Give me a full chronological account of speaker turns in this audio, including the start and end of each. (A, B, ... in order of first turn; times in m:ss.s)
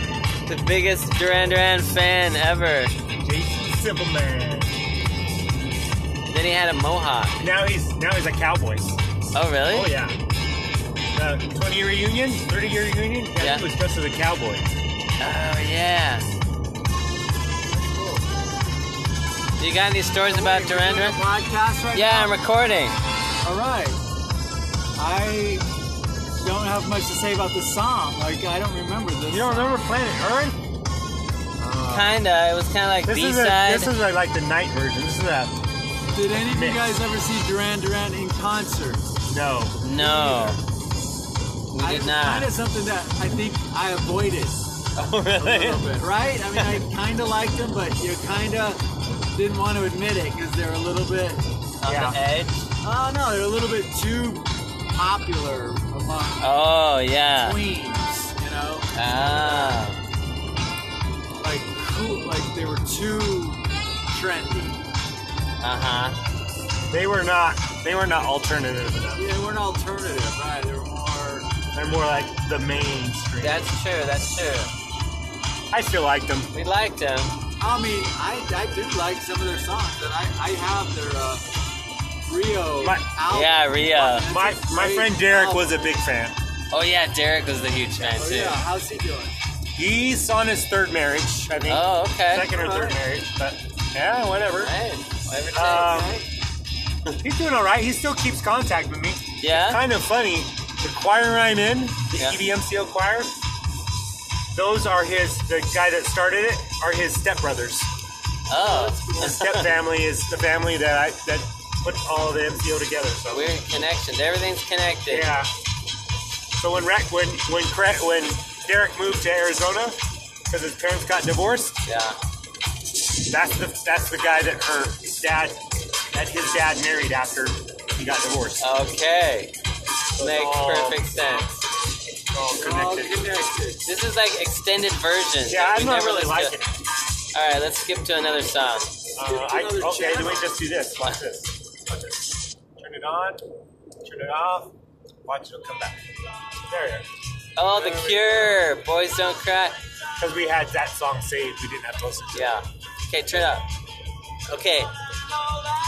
0:00.4-0:02.9 A
0:03.2-0:04.7 B
0:06.3-0:07.4 A
0:07.4-0:09.0 B
0:09.3-0:09.9 A
0:09.7-0:10.2 B
0:11.1-0:14.7 B
0:13.4-0:13.6 A
0:15.2-0:16.3 A
0:17.7-0:18.2 C
0:19.6-0:21.2 A
0:20.2-0:22.4 C
0:21.9-0:23.0 A
0:23.4-0:24.0 C
0:25.0-0:25.7 C
0:26.4-0:29.8 C
0:29.3-0:30.6 B
0:31.6-0:32.2 B
0:31.9-0:33.9 A
0:33.0-0:35.5 B
0:36.1-0:39.1 C
0:36.3-0:36.9 B
0:39.2-0:39.8 B
0:39.8-0:40.6 A
0:40.0-0:40.6 C
0:41.7-0:42.5 A
0:41.8-0:44.6 C
0:45.0-0:45.8 A
0:45.4-0:48.8 C
0:49.3-0:51.5 C
0:51.8-0:52.6 A
0:51.8-0:52.2 B
0:52.8-0:56.5 C
0:56.4-0:57.6 A
0:57.4-0:59.8 C
0:58.9-1:00.0 A
1:01.4-1:04.8 C
1:05.6-1:06.2 A
1:06.9-1:09.3 B
1:09.2-1:11.5 C
1:11.7-1:13.6 B
1:13.4-1:14.7 A
1:15.7-1:16.5 B
1:16.5-1:17.4 A
1:17.6-1:21.4 C
1:22.3-1:25.9 C
1:22.8-1:23.1 B
1:23.3-1:24.3 A
1:24.2-1:26.4 B
1:26.7-1:28.6 A
1:28.1-1:29.4 C
1:29.8-1:34.7 B
1:31.7-1:32.5 A
1:32.5-1:33.0 C
1:34.6-1:36.0 A
1:35.5-1:36.1 B
1:35.7-1:36.2 C
1:37.2-1:43.3 B
1:39.4-1:39.8 A
1:42.1-1:42.4 A
1:44.5-1:47.9 B
1:48.5-1:49.6 A
1:48.6-1:49.2 C
1:49.1-1:53.6 B
1:53.3-1:55.4 A
1:55.1-1:55.5 B
1:56.6-2:01.8 B
2:01.8-2:02.2 A
2:03.2-2:08.7 B
2:08.6-2:09.5 A
2:10.2-2:11.1 B
2:10.2-2:11.6 A
2:12.3-2:13.2 B
2:12.5-2:13.8 C
2:13.8-2:16.6 A
2:15.4-2:16.8 B
2:17.3-2:18.9 A
2:19.1-2:23.4 B
2:19.2-2:20.5 C
2:24.0-2:26.0 B
2:26.6-2:27.1 B
2:27.6-2:29.8 A
2:27.7-2:28.7 C
2:30.2-2:32.6 B
2:32.3-2:33.7 A
2:34.5-2:34.9 A